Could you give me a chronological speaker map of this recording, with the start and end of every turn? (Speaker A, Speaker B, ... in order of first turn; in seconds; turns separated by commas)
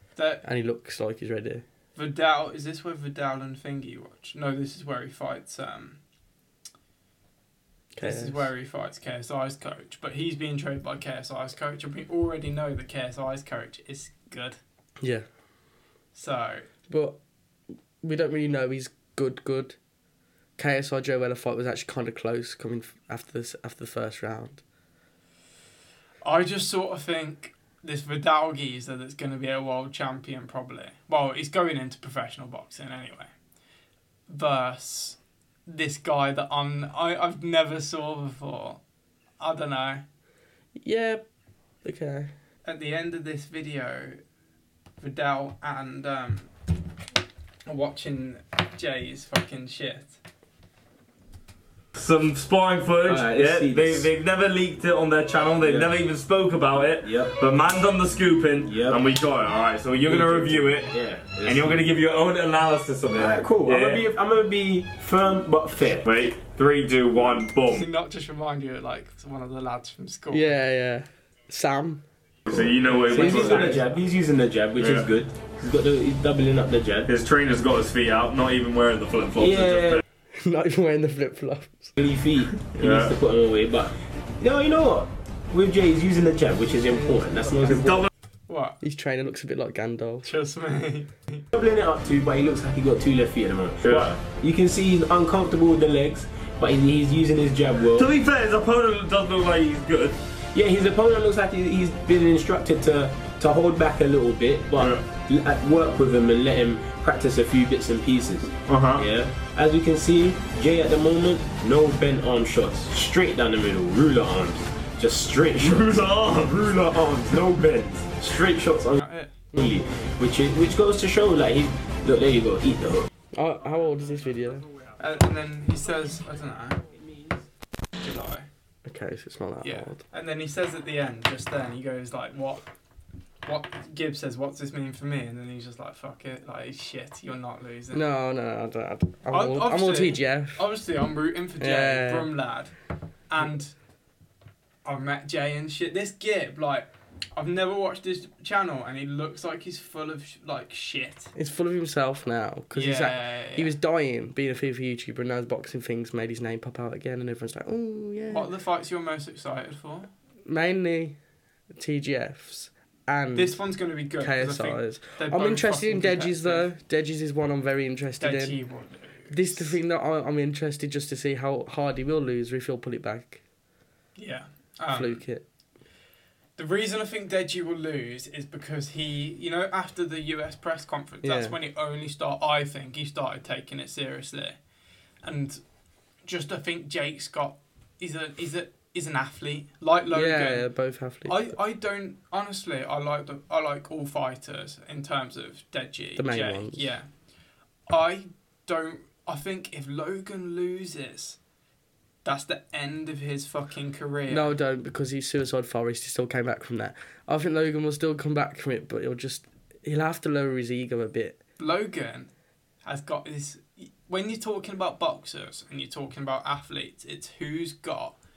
Speaker A: 0.1-0.4, Speaker B: 0.4-1.6, Speaker A: 1.9-6.0, Speaker B: 7.9-8.5, Speaker A: 8.0-14.6, Speaker B: 15.0-15.2, Speaker A: 16.1-16.7, Speaker B: 16.9-17.2, Speaker B: 18.0-19.8, Speaker B: 20.6-24.6, Speaker A: 26.2-33.3, Speaker A: 34.3-38.8, Speaker A: 39.4-40.0, Speaker B: 40.8-41.2, Speaker B: 41.8-42.3, Speaker A: 42.6-44.2, Speaker A: 45.0-46.5, Speaker A: 47.6-50.2, Speaker C: 51.9-60.9, Speaker D: 53.0-54.1, Speaker D: 55.6-56.0, Speaker D: 57.0-57.4, Speaker D: 58.6-59.1, Speaker D: 60.0-62.0, Speaker C: 61.4-64.1, Speaker D: 63.1-66.1, Speaker C: 66.0-67.9, Speaker A: 67.6-70.5, Speaker B: 70.3-72.0, Speaker C: 72.5-73.8, Speaker D: 72.5-77.2, Speaker B: 73.1-73.6, Speaker C: 74.8-75.1, Speaker C: 77.1-80.0, Speaker D: 79.3-80.0, Speaker B: 80.3-81.9, Speaker D: 82.0-88.1, Speaker C: 82.7-83.1, Speaker B: 86.8-87.9, Speaker C: 87.6-88.1, Speaker A: 88.5-88.8, Speaker B: 88.8-90.3, Speaker A: 90.2-91.5, Speaker D: 91.5-98.1, Speaker C: 93.8-94.2, Speaker C: 97.9-100.2, Speaker D: 100.5-119.0, Speaker C: 104.8-105.0, Speaker C: 108.7-109.0, Speaker C: 115.5-117.0, Speaker A: 119.0-119.4, Speaker D: 119.5-123.1, Speaker B: 123.3-124.7, Speaker A: 125.0-126.8, Speaker A: 128.0-128.5, Speaker B: 128.8-130.0, Speaker A: 129.6-132.6, Speaker A: 133.4-138.0, Speaker B: 137.9-140.6, Speaker A: 139.3-142.7, Speaker B: 141.6-142.3, Speaker A: 143.3-143.7, Speaker A: 144.8-151.3, Speaker B: 151.3-158.5, Speaker A: 152.7-153.7, Speaker A: 158.3-160.1, Speaker B: 160.4-161.2, Speaker B: 161.7-163.6, Speaker A: 163.3-166.7, Speaker B: 164.2-168.6, Speaker A: 168.2-169.8, Speaker B: 169.3-173.4, Speaker A: 174.2-175.2, Speaker B: 174.9-175.4, Speaker A: 176.6-184.6, Speaker B: 181.2-181.6, Speaker A: 185.2-185.6, Speaker A: 186.2-190.7, Speaker B: 190.1-191.5, Speaker A: 191.2-197.1, Speaker B: 196.2-196.9, Speaker A: 197.9-201.4, Speaker A: 202.2-204.5, Speaker B: 204.3-211.4, Speaker A: 211.6-212.3, Speaker A: 212.8-218.2